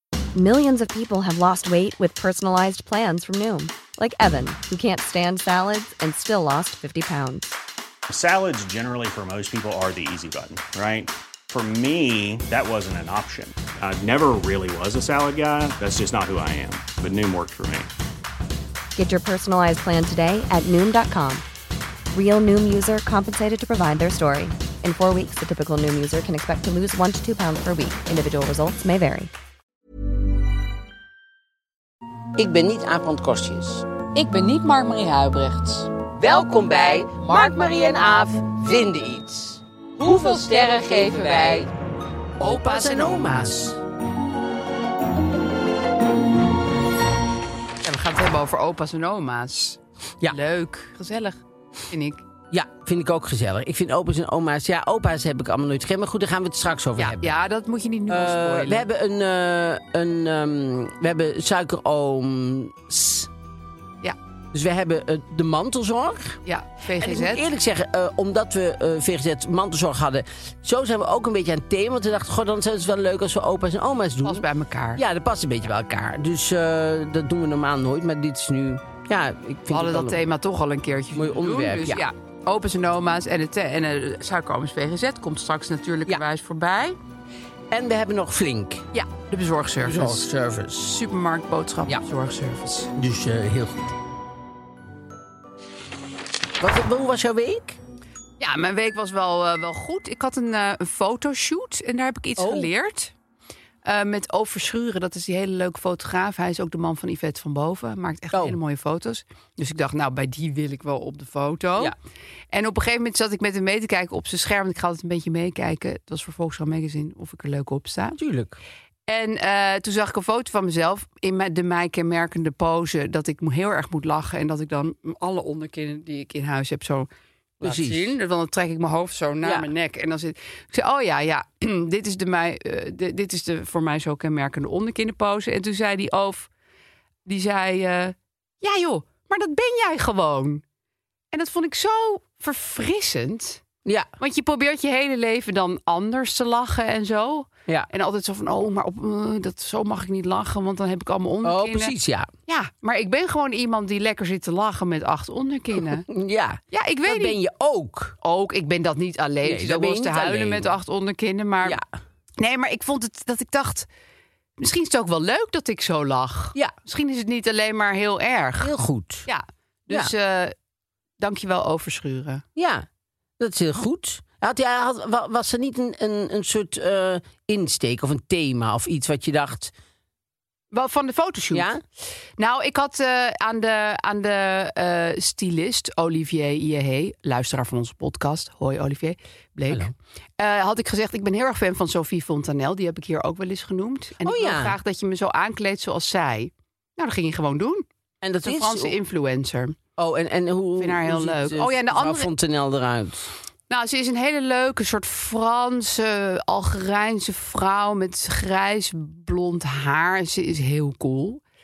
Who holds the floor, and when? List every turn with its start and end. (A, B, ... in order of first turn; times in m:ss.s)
0:00.4-0:07.5 A
0:08.1-0:17.9 B
0:19.0-0:21.4 A
0:22.1-0:29.3 A
0:32.4-0:33.9 C
0:34.1-0:35.9 D
0:36.1-0:41.7 C
0:40.1-0:41.6 D
0:42.4-0:43.8 C
0:42.4-0:43.5 D
0:47.8-0:51.4 D
0:51.9-0:52.2 D
0:52.5-0:57.3 C
0:57.0-0:58.9 D
0:58.1-1:03.3 C
1:04.5-1:06.4 C
1:06.4-1:07.5 D
1:07.0-1:14.4 C
1:14.2-1:15.0 D
1:15.0-1:20.2 C
1:19.7-1:27.0 D
1:21.1-1:22.0 C
1:27.7-1:28.9 C
1:28.9-1:30.3 D
1:29.8-1:31.0 C
1:30.8-1:32.9 D
1:32.9-1:33.9 C
1:36.6-1:37.8 C
1:38.4-1:43.1 D
1:42.4-1:42.7 C
1:43.8-1:51.9 D
1:48.3-1:48.6 C
1:52.5-1:58.2 D
1:58.2-1:58.6 C
1:59.1-2:07.1 D
2:07.6-2:08.2 C
2:07.6-2:16.5 D
2:09.4-2:09.7 C
2:17.2-2:20.6 D
2:21.3-2:23.6 D
2:24.2-2:31.9 D
2:31.4-2:32.3 C
2:32.5-2:36.1 D
2:36.0-2:38.2 C
2:36.7-2:37.4 D
2:38.2-2:41.8 D
2:39.4-2:40.7 C
2:42.4-2:43.9 D
2:44.6-2:48.7 D
2:48.6-2:49.3 C
2:49.3-2:50.5 D
2:51.2-2:52.4 D
2:52.6-2:52.9 C
2:53.4-2:59.7 C
3:00.7-3:01.7 D
3:01.5-3:01.8 C
3:02.4-3:17.8 D
3:14.2-3:14.8 C
3:18.2-3:19.0 C
3:18.4-3:19.8 D
3:20.0-3:23.3 C
3:20.8-3:22.3 D
3:23.7-3:31.4 D